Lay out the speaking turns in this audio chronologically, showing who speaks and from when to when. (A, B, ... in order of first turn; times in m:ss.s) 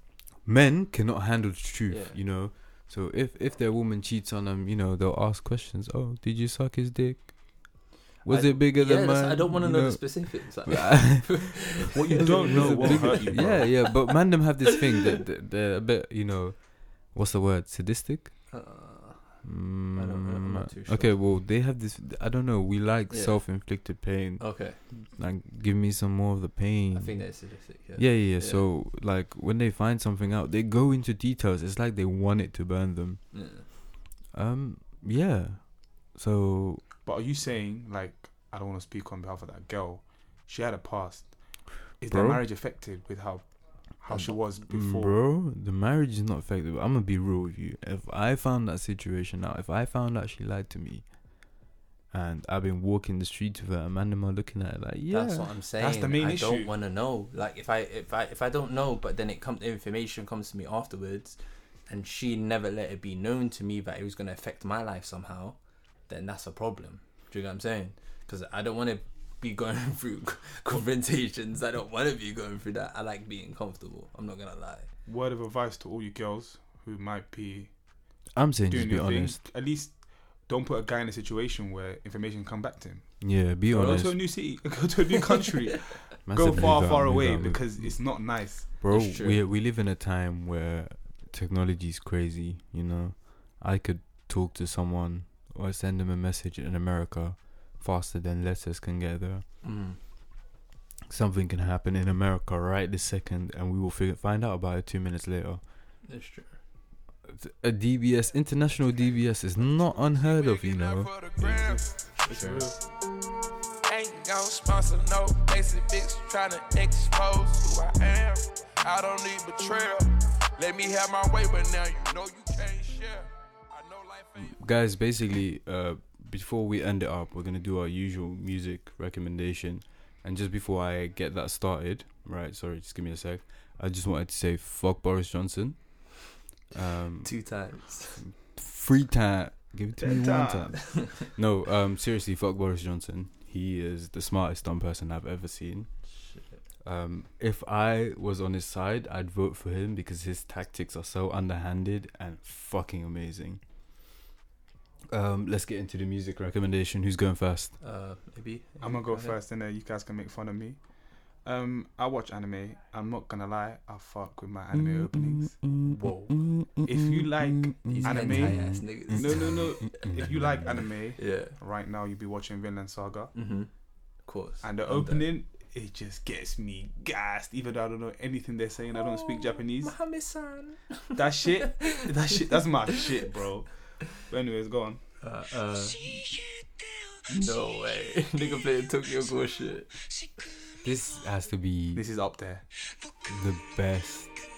0:00.4-0:18.6 A
0:01.9-0:02.2 B
0:08.2-0:14.8 B
0:11.9-0:13.9 C
0:18.5-0:21.2 B
0:19.4-0:33.8 A
0:23.1-0:24.8 B
0:26.9-0:28.6 B
0:33.3-0:33.6 B
0:34.3-0:36.8 A
0:37.0-0:45.2 C
0:42.1-0:42.4 A
0:44.5-0:51.5 A
0:52.1-0:55.5 A
0:55.1-1:14.9 B
0:55.8-0:56.7 C
1:15.0-1:18.1 C
1:18.3-1:19.4 A
1:18.7-1:28.8 C
1:23.2-1:24.2 A
1:23.7-1:24.3 B
1:26.2-1:39.4 A
1:28.9-1:29.4 B
1:39.6-1:40.0 B
1:41.1-1:45.6 A
1:46.0-1:46.6 B
1:47.2-1:51.1 A
1:49.5-1:52.0 D
1:51.4-1:52.9 C
1:52.2-1:52.7 B
1:53.9-2:04.6 D
2:04.4-2:26.0 A
2:17.2-2:18.2 B
2:20.0-2:20.8 C
2:26.1-2:26.6 B
2:26.8-2:33.6 A
2:35.1-2:37.8 A
2:37.8-2:39.4 B
2:38.8-2:45.8 C
2:44.7-2:50.8 A
2:45.9-2:46.3 B
2:46.8-2:53.4 C
2:47.8-2:50.2 B
2:51.2-2:51.6 B
2:53.3-2:55.3 B
2:54.6-3:00.0 C
2:58.9-3:02.4 B
3:01.1-3:05.0 C
3:05.2-3:06.2 B
3:07.3-3:09.9 B
3:10.8-3:12.0 A
3:11.9-3:12.6 C
3:13.3-3:14.3 A